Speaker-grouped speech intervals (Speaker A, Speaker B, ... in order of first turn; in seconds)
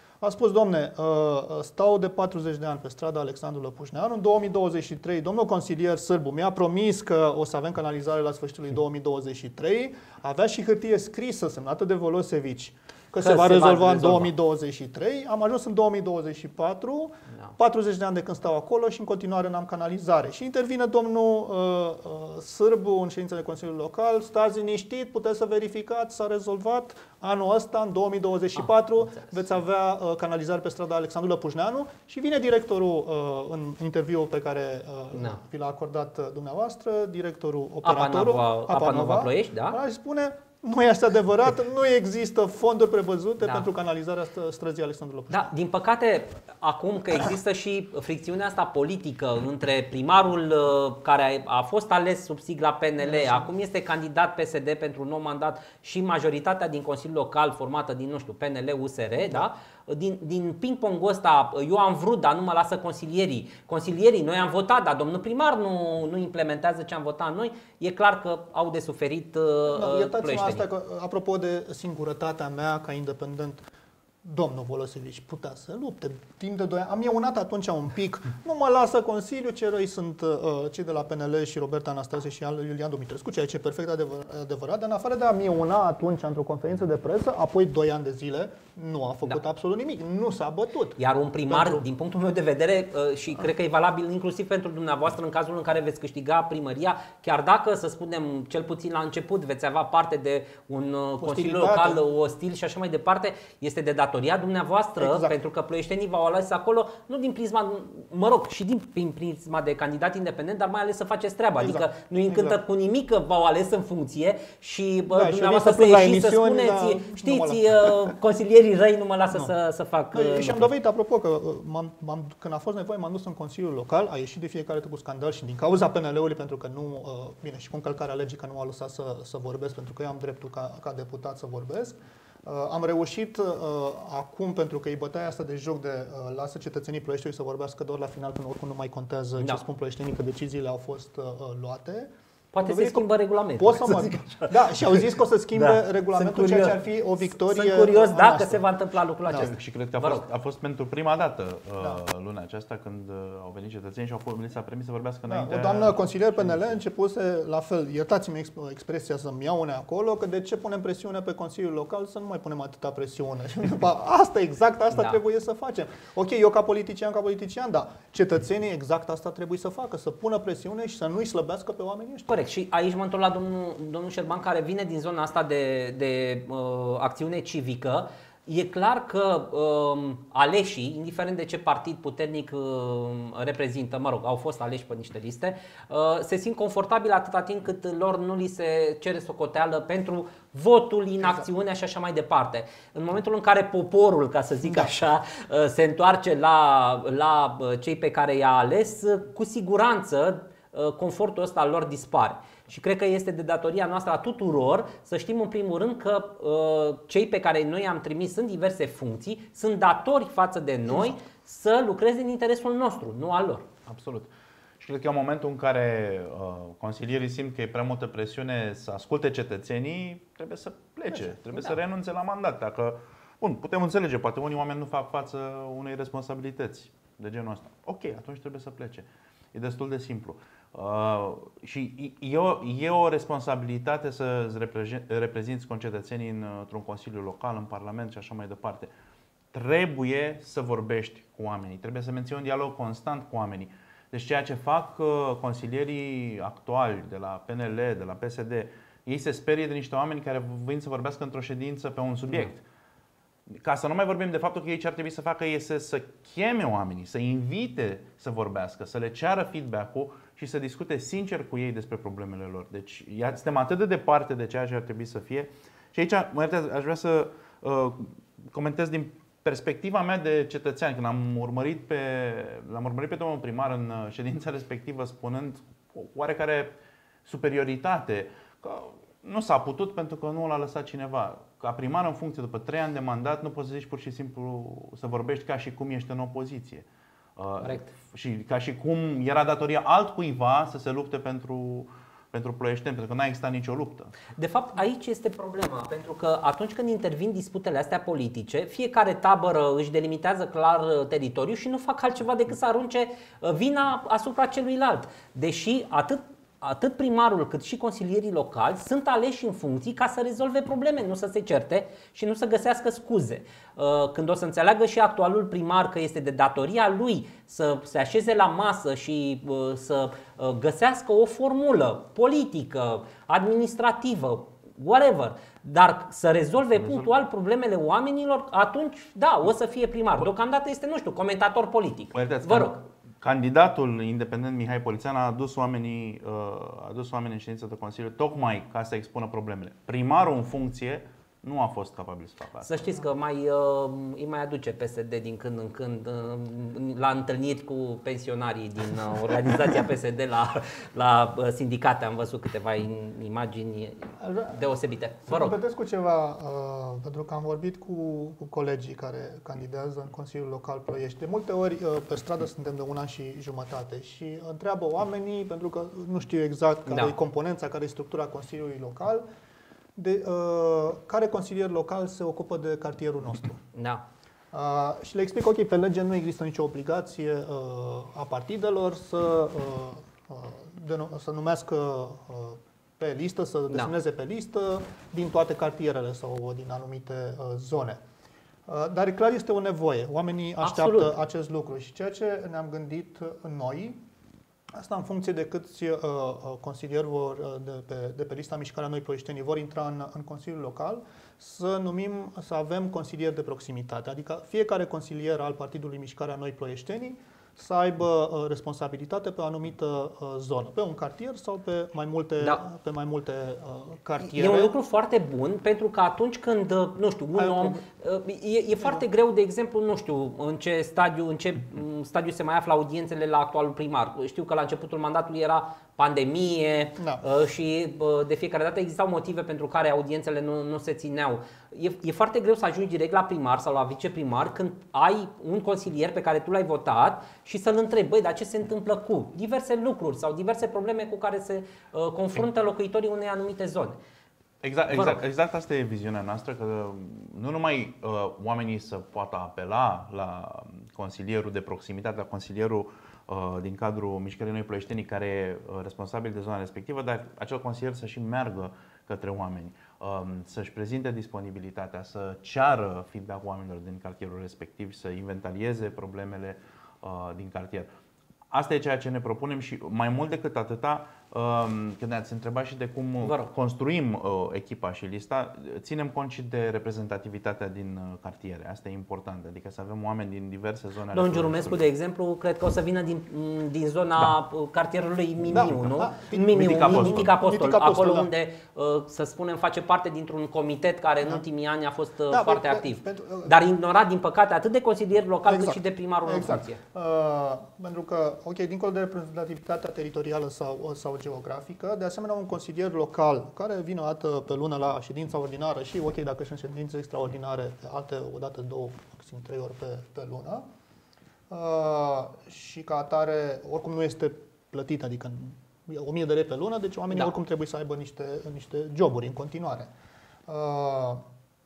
Speaker A: 0.2-45.5, 53.0-53.5, 59.2-59.5, 69.7-73.7, 74.2-91.8, 101.2-102.0, 105.0-105.4, 111.6-112.6, 115.1-118.2, 120.1-142.1, 142.6-148.7, 149.2-149.5, 155.3-172.4, 194.7-194.9, 210.9-211.1, 354.2-354.7, 355.3-369.2, 369.9-373.6, 374.5-388.0, 388.6-394.0, 394.7-414.8, 417.4-417.8, 427.0-427.2, 485.5-488.3, 492.3-493.6, 495.4-510.6, 511.5-519.9, 520.5-521.2
Speaker B: 13.2-14.3, 28.6-29.3, 35.1-35.4, 37.8-39.8, 45.3-70.7, 91.0-120.7, 142.5-150.2, 164.9-165.2, 172.3-213.9, 294.4-332.8, 342.6-355.6, 366.9-367.1, 373.7-374.0, 390.6-391.1, 414.2-444.0, 444.9-445.2, 473.2-473.5, 481.1-496.8
Speaker C: 149.3-156.8, 213.9-214.3, 214.8-238.9, 239.5-252.6, 253.5-286.9, 287.4-294.1, 326.8-327.1, 332.1-342.7, 444.6-467.9, 468.5-481.8, 486.5-487.4